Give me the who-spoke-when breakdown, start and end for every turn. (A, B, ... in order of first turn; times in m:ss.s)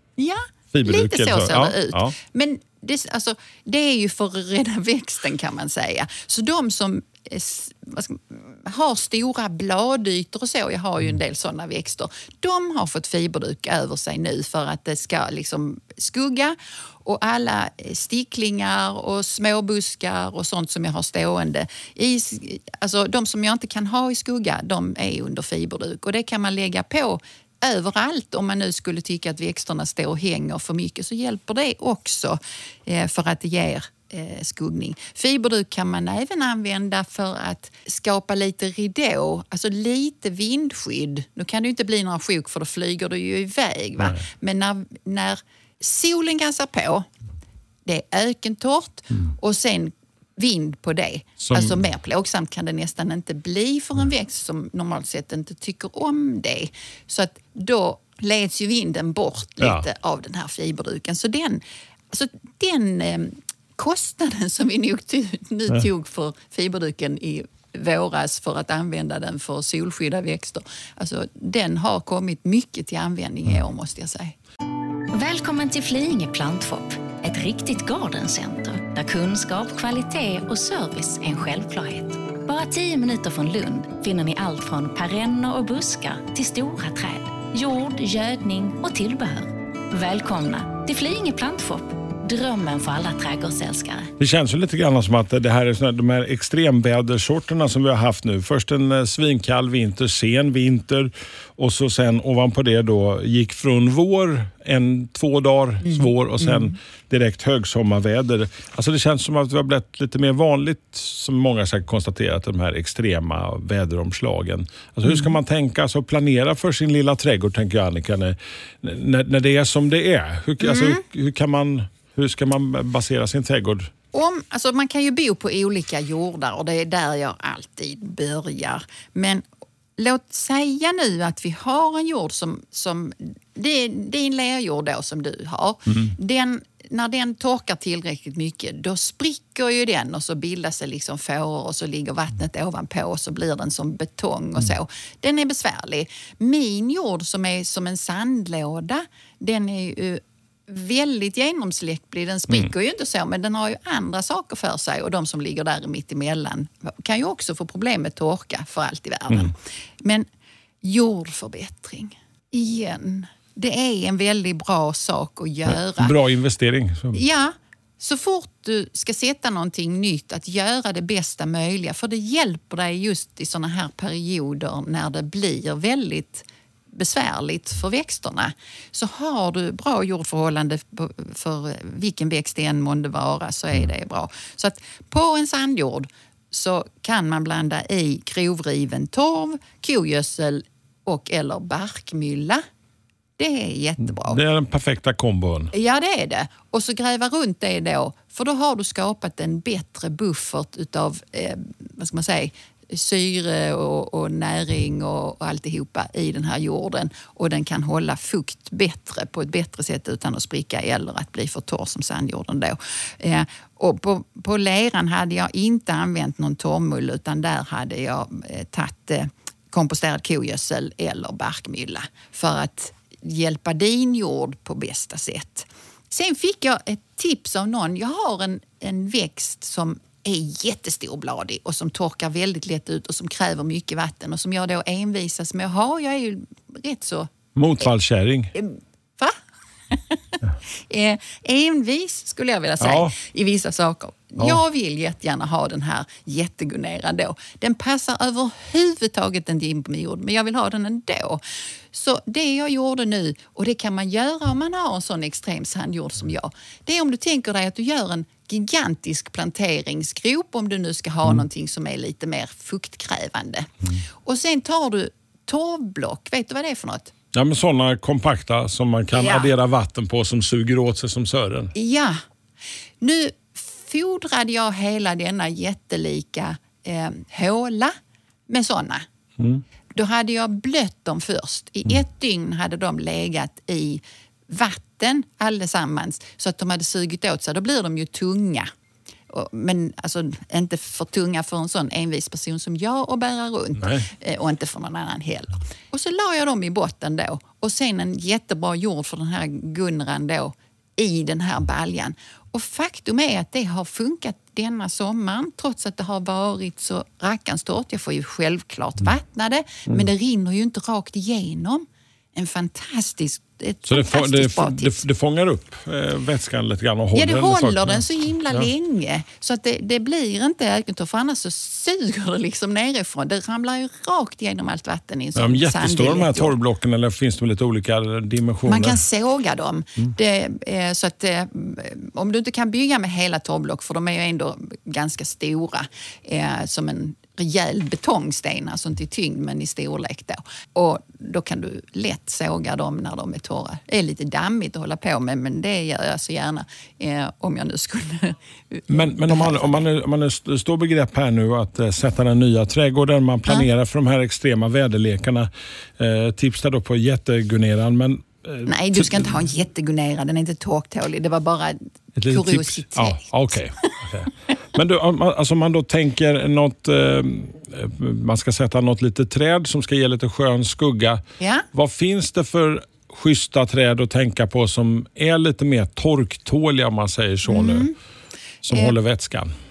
0:00.2-0:47.1 A
0:00.7-0:02.1 B
0:47.8-1:14.4 A
0:51.4-0:51.8 B
0:59.6-0:59.8 B
1:15.1-1:34.1 C
1:34.2-2:03.9 B
2:00.6-2:01.0 A
2:04.1-2:09.4 A
2:10.0-2:40.2 A
2:40.8-2:46.1 A
2:45.6-2:47.2 B
2:47.1-3:12.6 A
3:13.4-3:14.4 A
3:14.2-3:15.7 B
3:15.7-3:57.3 A
3:57.5-3:58.5 B
3:58.5-3:59.4 A
3:59.9-4:23.7 A
4:02.8-4:03.1 B
4:24.2-4:27.1 A
4:27.3-4:31.7 B
4:29.1-4:29.5 A
4:31.7-4:32.2 A
4:33.0-4:37.9 A
4:38.5-4:39.0 A
4:39.4-4:39.6 B
4:39.9-4:48.7 A
4:49.3-5:15.0 A
5:13.9-5:18.7 B
5:17.1-5:26.6 A
5:25.4-5:29.0 B
5:28.7-5:49.8 A
5:48.9-5:59.4 B
5:58.6-6:04.1 A
6:02.2-6:17.9 B
6:11.4-6:11.6 A
6:17.5-6:17.9 A
6:18.6-6:19.5 B
6:18.7-6:18.9 A